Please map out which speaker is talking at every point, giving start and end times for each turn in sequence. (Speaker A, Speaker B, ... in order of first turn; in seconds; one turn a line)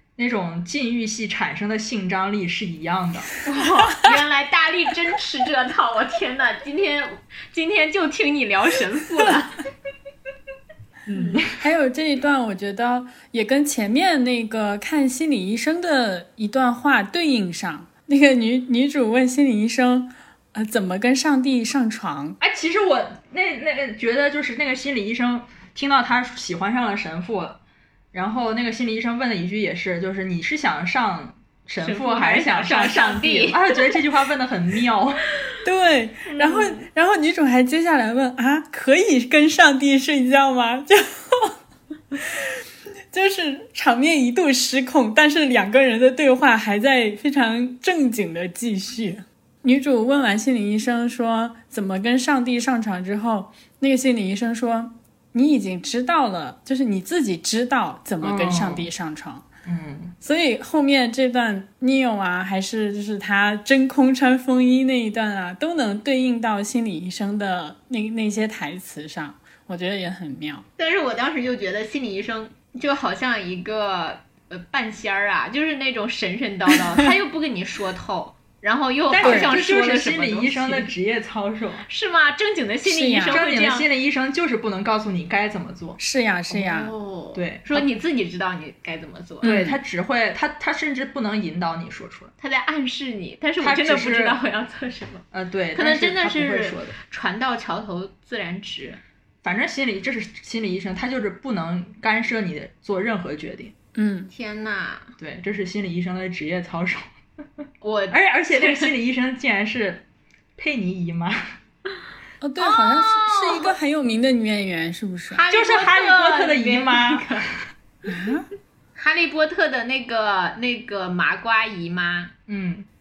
Speaker A: 0.2-3.4
Speaker B: 3.4-9.6
Speaker A: 11.1-11.6
Speaker C: 11.5-22.4
Speaker A: 22.4-27.6
Speaker A: 28.1-35.2
Speaker B: 31.8-33.8
Speaker C: 35.6-41.5
Speaker B: 36.3-36.8
Speaker C: 42.1-42.5
Speaker C: 43.1-59.5
Speaker A: 58.2-58.9
Speaker A: 59.6-60.1
Speaker C: 60.2-70.6
Speaker B: 70.8-80.9
Speaker A: 79.1-81.9
Speaker C: 79.2-79.5
Speaker B: 81.9-83.9
Speaker C: 82.8-83.4
Speaker A: 83.3-86.0
Speaker C: 86.0-86.9
Speaker B: 86.5-89.6
Speaker A: 87.3-87.9
Speaker C: 89.4-89.8
Speaker A: 89.4-92.3
Speaker B: 92.4-99.0
Speaker A: 93.6-94.4
Speaker A: 95.3-97.0
Speaker A: 99.4-103.7
Speaker C: 103.9-104.3
Speaker B: 104.3-105.1
Speaker A: 105.2-107.1
Speaker B: 107.8-108.9
Speaker A: 108.1-110.0
Speaker A: 110.6-111.4
Speaker C: 112.4-115.4
Speaker B: 112.6-113.7
Speaker B: 115.3-117.5
Speaker A: 115.5-117.5
Speaker C: 118.0-118.5
Speaker B: 119.0-122.3
Speaker A: 122.5-122.9